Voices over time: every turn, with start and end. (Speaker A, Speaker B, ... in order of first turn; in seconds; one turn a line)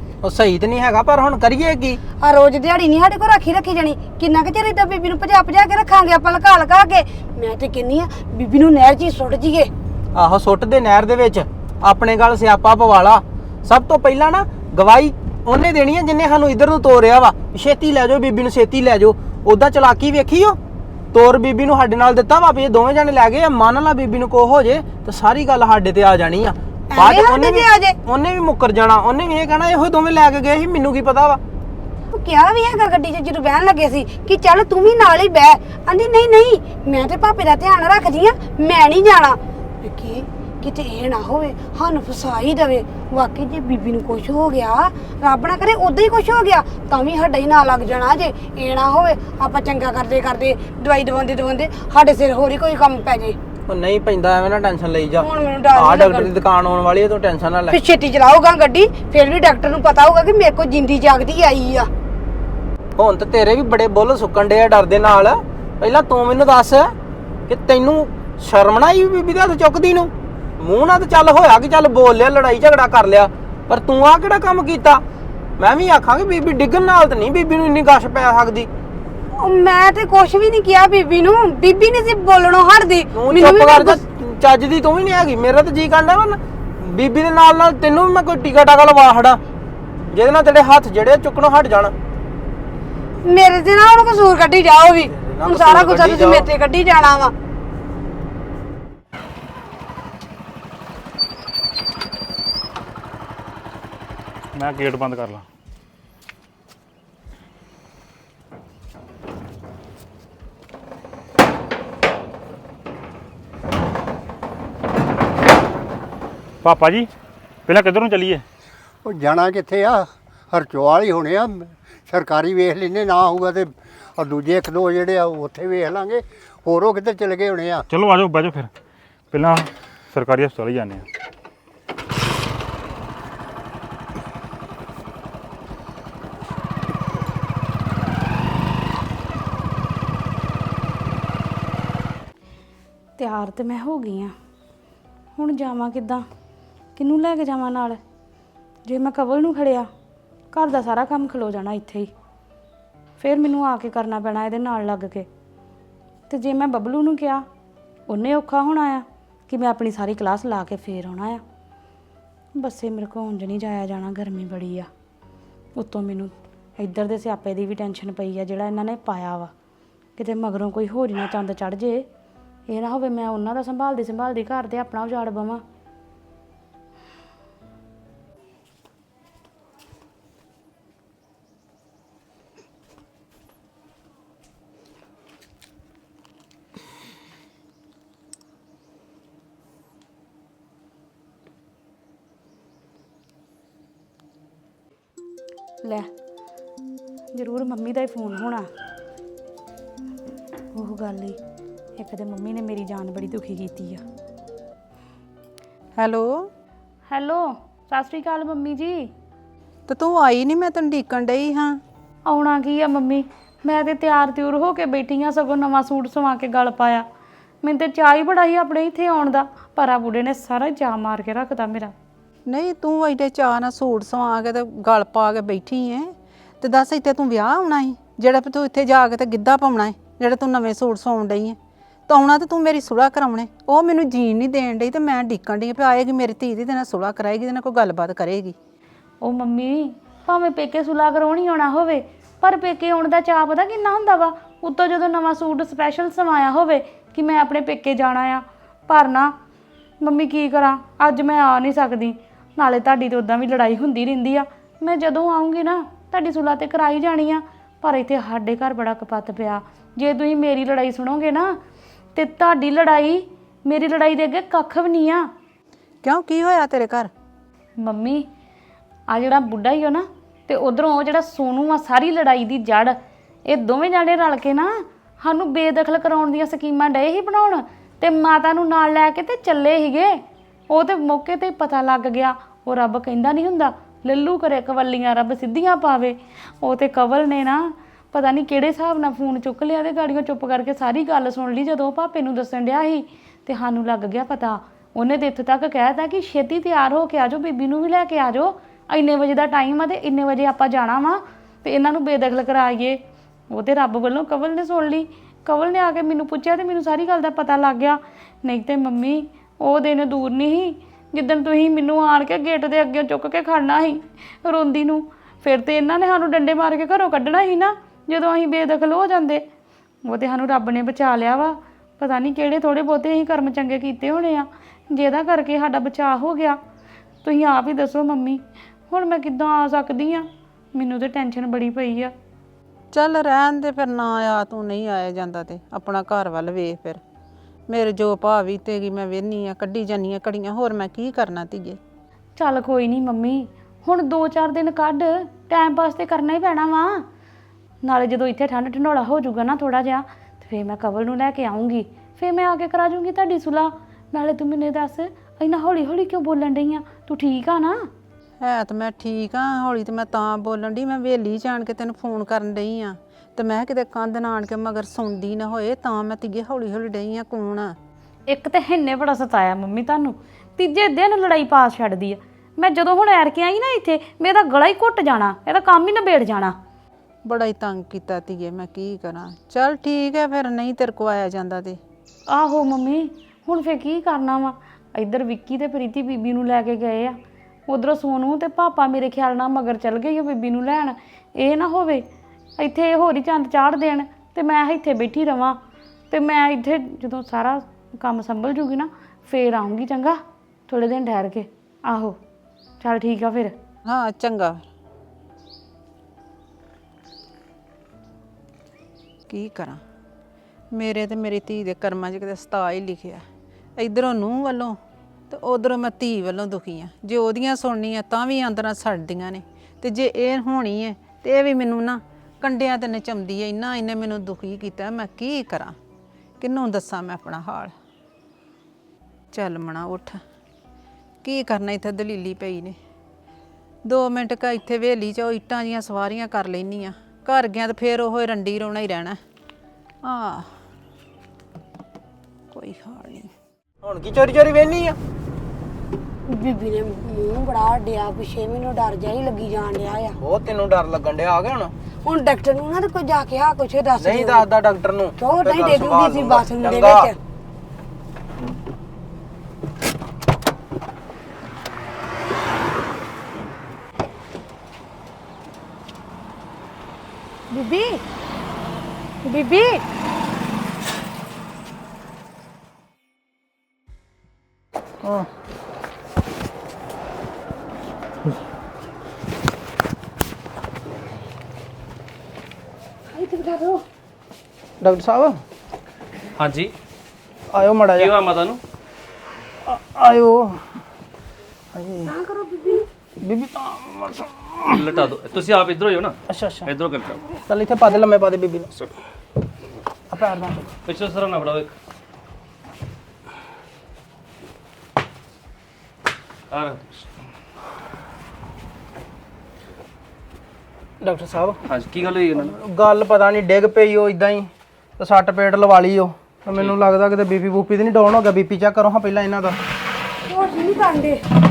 Speaker A: 0.2-2.0
Speaker B: 2.2-9.7
Speaker A: 10.1-20.6
Speaker A: 21.1-31.4
Speaker B: 26.9-27.9
Speaker B: 32.1-53.4
Speaker A: 53.7-57.8
Speaker B: 55.2-56.3
Speaker B: 57.7-61.9
Speaker A: 63.0-66.9
Speaker A: 67.5-75.0
Speaker A: 75.6-78.7
Speaker B: 79.3-84.0
Speaker A: 83.1-89.4
Speaker A: 90.1-91.9
Speaker B: 93.2-97.3
Speaker A: 95.1-96.5
Speaker C: 104.5-105.5
Speaker C: 116.6-117.1
Speaker C: 117.7-118.4
Speaker D: 119.0-127.8
Speaker C: 127.9-128.7
Speaker C: 129.3-131.0
Speaker E: 143.2-144.3
Speaker E: 145.3-146.2
Speaker E: 146.9-148.0
Speaker E: 148.9-149.9
Speaker E: 150.5-152.1
Speaker E: 153.2-155.3
Speaker E: 156.3-157.4
Speaker E: 158.1-161.4
Speaker E: 162.6-164.9
Speaker E: 165.8-169.5
Speaker E: 170.2-172.1
Speaker E: 172.7-175.6
Speaker E: 195.8-196.1
Speaker E: 197.3-198.7
Speaker E: 200.7-201.4
Speaker E: 202.0-204.0
Speaker F: 205.9-206.5
Speaker E: 207.1-209.1
Speaker F: 209.9-211.8
Speaker E: 212.2-217.1
Speaker E: 217.6-221.9
Speaker F: 222.5-238.6
Speaker E: 239.2-249.3
Speaker E: 250.0-261.6
Speaker E: 262.1-265.3
Speaker F: 266.0-267.1
Speaker E: 267.8-268.3
Speaker E: 269.1-303.0
Speaker E: 303.5-319.4
Speaker E: 320.0-326.6
Speaker E: 327.2-332.1
Speaker F: 332.9-337.0
Speaker F: 337.7-341.8
Speaker E: 342.4-347.0
Speaker E: 347.8-357.8
Speaker F: 358.4-367.8
Speaker E: 368.3-376.6
Speaker F: 377.2-381.8
Speaker E: 382.3-392.0
Speaker E: 392.6-395.6
Speaker E: 396.1-402.2
Speaker E: 402.8-403.6
Speaker F: 403.9-404.6
Speaker F: 409.3-409.8
Speaker F: 410.7-413.2
Speaker F: 413.8-414.8
Speaker F: 415.3-425.8
Speaker F: 426.4-427.7
Speaker F: 429.3-430.2
Speaker F: 431.2-432.8
Speaker F: 433.8-439.2
Speaker F: 440.0-440.5
Speaker F: 442.5-443.3
Speaker A: 443.8-445.0
Speaker B: 446.3-450.2
Speaker A: 450.2-451.7
Speaker B: 452.0-454.4
Speaker A: 454.0-457.1
Speaker B: 455.2-457.2
Speaker B: 467.5-468.0
Speaker B: 469.2-469.8
Speaker A: 475.0-475.3
Speaker B: 483.1-483.8
Speaker A: 484.8-485.4
Speaker G: 486.4-486.7
Speaker A: 487.5-488.1
Speaker G: 488.0-488.6
Speaker A: 489.6-490.6
Speaker A: 491.7-492.1
Speaker B: 492.1-492.9
Speaker A: 493.2-494.8
Speaker G: 494.6-497.2
Speaker A: 496.3-496.7
Speaker A: 497.4-498.7
Speaker A: 500.1-500.6
Speaker G: 500.8-501.7
Speaker G: 506.5-507.1
Speaker A: 511.0-511.6
Speaker G: 511.7-512.5
Speaker A: 512.3-519.6
Speaker B: 520.2-521.2